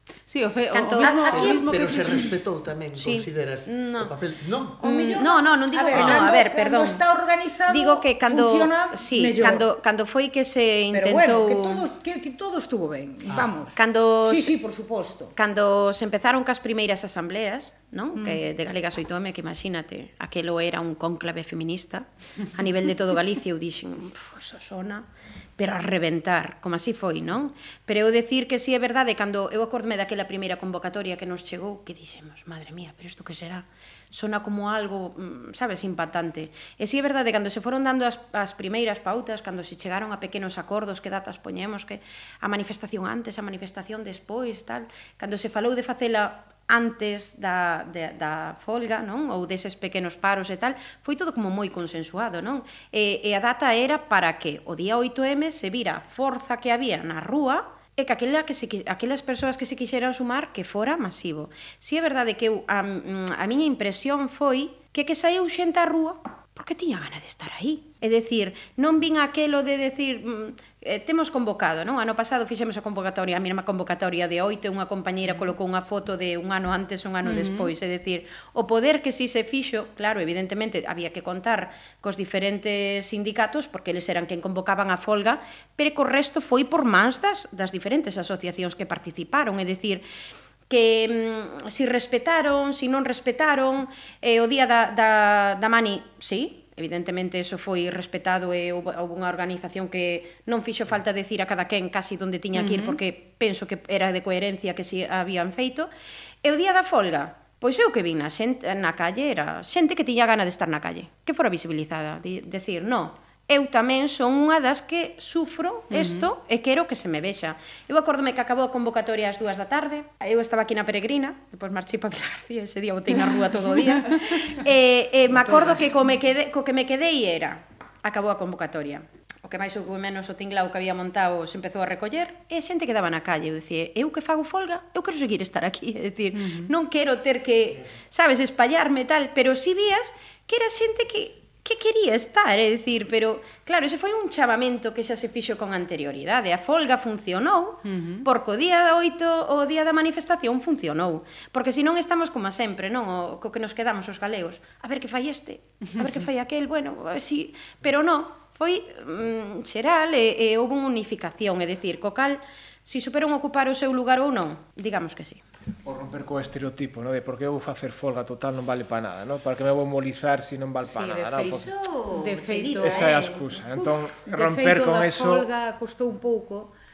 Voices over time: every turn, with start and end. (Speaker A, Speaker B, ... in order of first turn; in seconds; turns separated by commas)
Speaker A: 0.3-2.4, Speaker B: 0.7-1.7, Speaker C: 1.1-4.8, Speaker B: 3.0-4.2, Speaker B: 4.8-7.0, Speaker D: 4.8-9.7, Speaker C: 5.9-6.3, Speaker B: 7.7-11.9, Speaker D: 10.9-15.3, Speaker C: 13.3-13.5, Speaker B: 13.7-14.6, Speaker B: 15.4-90.0, Speaker D: 18.1-18.4, Speaker A: 77.2-77.7, Speaker B: 90.7-105.9, Speaker A: 102.5-103.0, Speaker B: 106.4-165.4, Speaker A: 115.9-116.3, Speaker D: 125.3-125.9, Speaker A: 136.3-136.7, Speaker A: 147.9-148.3, Speaker E: 165.8-171.7, Speaker D: 170.8-171.5, Speaker B: 171.0-173.6, Speaker D: 172.1-176.7, Speaker E: 172.8-175.5